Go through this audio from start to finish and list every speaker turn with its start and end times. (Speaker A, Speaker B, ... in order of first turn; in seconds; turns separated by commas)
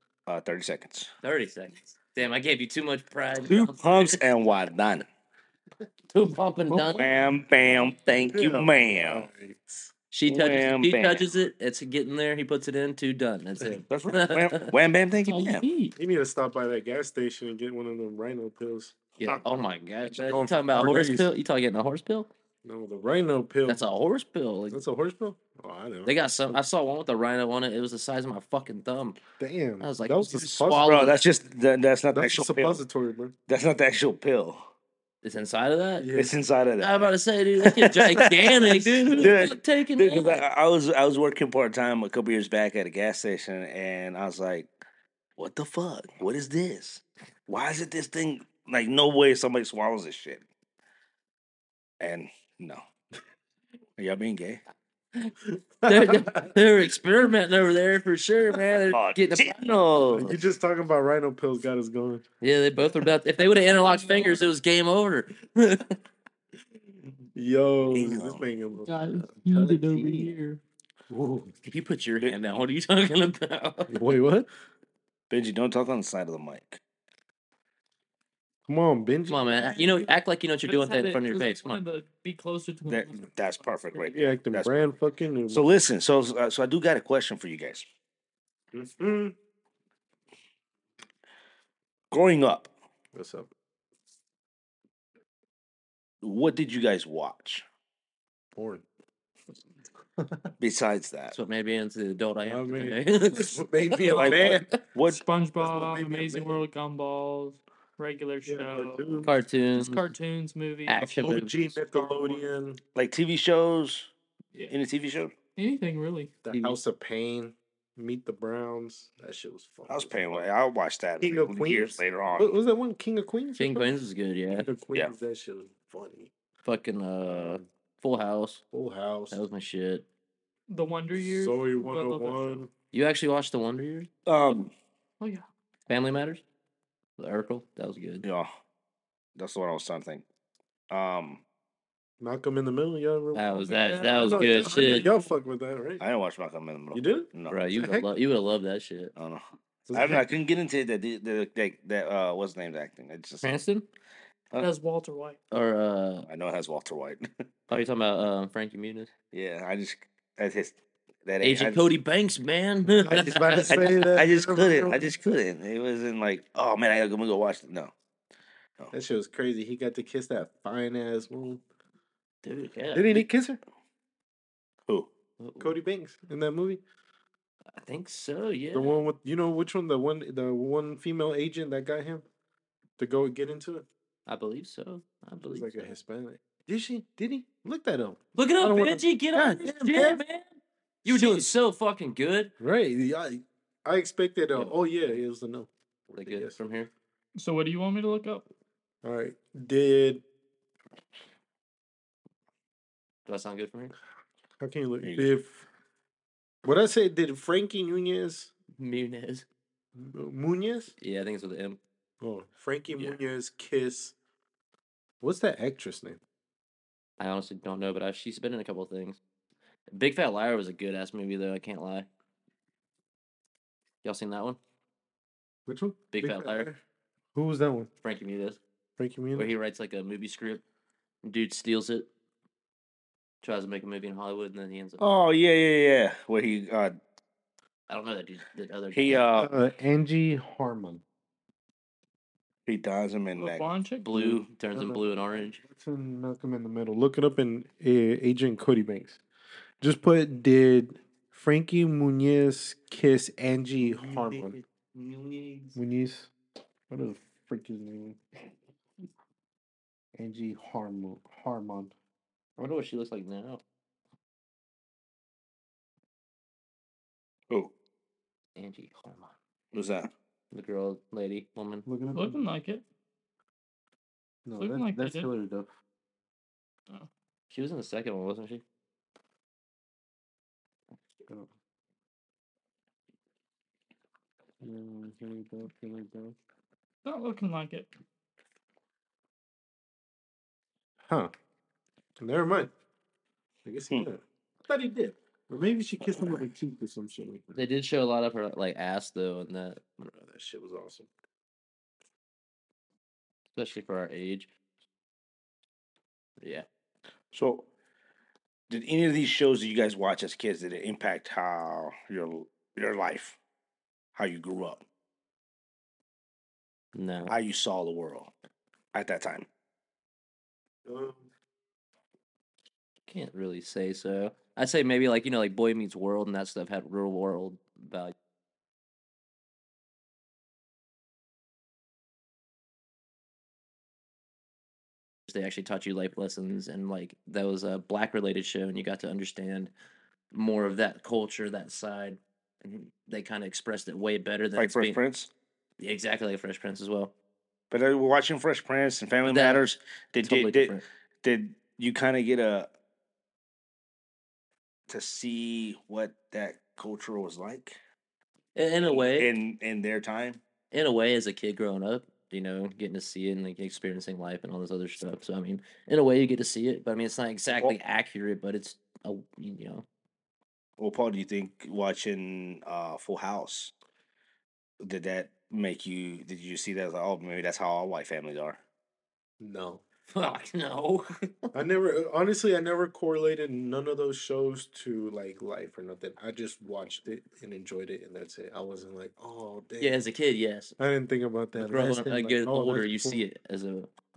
Speaker A: 0.3-1.1, Speaker B: 1.2-4.2, Speaker A: 3.5-5.1, Speaker B: 6.1-7.0, Speaker C: 6.7-7.1, Speaker A: 7.0-9.3, Speaker C: 8.3-9.9, Speaker B: 10.1-14.7, Speaker A: 10.2-11.3, Speaker A: 13.9-15.7, Speaker D: 15.2-15.9, Speaker C: 15.9-19.4, Speaker B: 19.2-22.3, Speaker C: 20.2-21.3, Speaker C: 22.6-23.8, Speaker B: 23.6-24.8, Speaker C: 24.7-26.6, Speaker B: 26.0-29.2, Speaker C: 29.4-31.1, Speaker B: 29.8-31.1, Speaker A: 30.8-32.8, Speaker C: 32.1-33.3, Speaker A: 33.5-34.7, Speaker B: 35.2-36.1, Speaker C: 36.0-36.3, Speaker A: 36.1-44.7, Speaker B: 36.8-40.4, Speaker A: 45.4-50.4, Speaker A: 52.0-52.8, Speaker A: 54.0-54.6, Speaker C: 55.5-56.5, Speaker B: 55.9-60.2, Speaker A: 58.9-60.4, Speaker C: 60.1-62.2, Speaker B: 62.4-66.0, Speaker D: 63.8-64.4, Speaker C: 67.3-70.3, Speaker A: 67.9-68.4, Speaker D: 68.9-70.6, Speaker C: 71.1-71.5, Speaker B: 71.6-74.0, Speaker C: 73.9-74.5, Speaker A: 75.3-76.8, Speaker C: 78.7-79.4, Speaker B: 79.3-81.8, Speaker D: 79.7-80.1, Speaker D: 80.6-84.2, Speaker A: 82.9-84.7, Speaker C: 84.1-85.7, Speaker A: 85.5-87.8, Speaker C: 88.7-89.3, Speaker A: 92.1-92.7, Speaker C: 93.1-93.5, Speaker A: 96.2-97.6, Speaker C: 98.5-98.8, Speaker C: 100.2-100.5, Speaker A: 100.6-101.3, Speaker B: 101.3-104.1, Speaker C: 102.5-104.7, Speaker D: 104.1-104.3, Speaker A: 104.1-105.2, Speaker D: 105.0-111.0, Speaker C: 105.6-106.6, Speaker C: 108.5-109.3, Speaker B: 109.2-110.1, Speaker B: 110.9-111.8, Speaker C: 111.0-112.8, Speaker A: 112.9-114.1, Speaker A: 114.7-115.3, Speaker D: 115.5-116.3, Speaker C: 116.4-120.4, Speaker B: 116.5-116.8, Speaker A: 119.9-122.5, Speaker C: 121.2-123.9, Speaker B: 123.6-124.7, Speaker C: 124.5-126.3, Speaker B: 126.6-128.6, Speaker C: 127.2-127.7, Speaker C: 128.7-129.4, Speaker B: 129.3-130.0, Speaker D: 130.7-132.6, Speaker C: 131.1-132.7, Speaker B: 132.9-134.1, Speaker A: 134.2-134.7, Speaker D: 135.2-135.4, Speaker B: 135.9-136.4, Speaker B: 137.2-138.2, Speaker A: 138.2-138.5, Speaker A: 139.3-140.2, Speaker A: 140.9-141.4, Speaker C: 142.2-146.0, Speaker B: 143.3-145.1, Speaker D: 143.8-145.3, Speaker A: 146.0-147.6, Speaker C: 146.9-148.1, Speaker B: 147.5-149.1, Speaker A: 149.2-153.5, Speaker C: 149.9-150.2, Speaker B: 153.4-153.9, Speaker D: 154.6-155.4, Speaker B: 155.5-156.2, Speaker A: 156.2-157.2, Speaker B: 157.7-159.1, Speaker A: 159.3-161.9, Speaker B: 161.4-163.8, Speaker C: 162.9-165.0, Speaker A: 163.5-167.9, Speaker C: 168.9-171.6, Speaker B: 172.4-173.3, Speaker C: 172.9-173.6, Speaker B: 175.4-175.8, Speaker C: 175.6-176.8, Speaker B: 177.8-179.0, Speaker C: 178.7-182.2, Speaker C: 183.0-183.9, Speaker B: 184.3-185.9, Speaker C: 185.5-190.2, Speaker B: 188.3-192.5, Speaker C: 191.0-191.5, Speaker C: 192.6-195.7, Speaker B: 196.1-196.9, Speaker C: 196.2-196.6, Speaker D: 197.3-198.4, Speaker C: 199.0-200.2, Speaker B: 203.2-203.9, Speaker C: 204.6-205.7, Speaker A: 205.0-205.3, Speaker C: 206.6-208.5, Speaker B: 208.8-209.4, Speaker C: 209.9-210.9, Speaker B: 211.0-211.8, Speaker C: 212.2-214.1, Speaker C: 215.2-216.2, Speaker B: 217.2-219.2, Speaker B: 219.9-222.1, Speaker B: 224.0-224.6, Speaker C: 225.7-226.8, Speaker B: 226.1-226.7, Speaker C: 227.3-227.9, Speaker B: 228.0-228.6, Speaker C: 229.0-229.5, Speaker B: 229.3-230.6, Speaker B: 231.2-232.1, Speaker B: 233.4-235.0, Speaker A: 235.0-237.0, Speaker B: 237.9-239.2, Speaker A: 238.9-239.5, Speaker C: 239.3-241.0, Speaker A: 242.7-244.5, Speaker D: 243.3-244.1, Speaker B: 244.0-245.6, Speaker C: 244.7-249.2, Speaker C: 249.8-254.6, Speaker D: 254.1-255.7, Speaker B: 255.0-255.7, Speaker C: 255.8-256.3, Speaker C: 256.9-258.2, Speaker C: 260.1-261.9, Speaker B: 262.6-263.6, Speaker B: 268.6-269.3, Speaker A: 269.7-270.1, Speaker B: 270.5-271.9, Speaker C: 271.9-272.4, Speaker D: 272.1-272.8, Speaker C: 274.4-275.7, Speaker D: 274.6-275.3, Speaker B: 277.5-278.6, Speaker C: 284.6-286.4, Speaker D: 287.0-287.9, Speaker C: 291.1-291.3, Speaker C: 292.2-292.7, Speaker C: 293.6-297.4, Speaker B: 297.5-300.1, Speaker C: 300.1-301.1, Speaker B: 303.6-304.5, Speaker B: 306.4-306.6, Speaker A: 307.3-307.7, Speaker A: 308.7-313.4, Speaker A: 314.1-314.8, Speaker B: 316.9-317.3, Speaker A: 317.3-318.3, Speaker A: 318.9-319.5, Speaker C: 320.8-321.3, Speaker B: 323.1-328.1, Speaker B: 335.3-339.7, Speaker B: 340.3-345.0, Speaker A: 344.6-345.3, Speaker B: 345.8-347.1, Speaker A: 347.7-352.7, Speaker B: 349.2-349.6, Speaker B: 350.2-350.8, Speaker A: 354.9-357.8, Speaker B: 358.5-359.3, Speaker A: 358.8-360.4, Speaker B: 360.7-369.9, Speaker A: 370.8-373.7, Speaker A: 374.8-378.6, Speaker C: 379.4-379.8, Speaker B: 380.1-381.5, Speaker C: 381.5-390.0, Speaker B: 389.8-390.7, Speaker C: 390.8-393.2, Speaker B: 391.6-393.9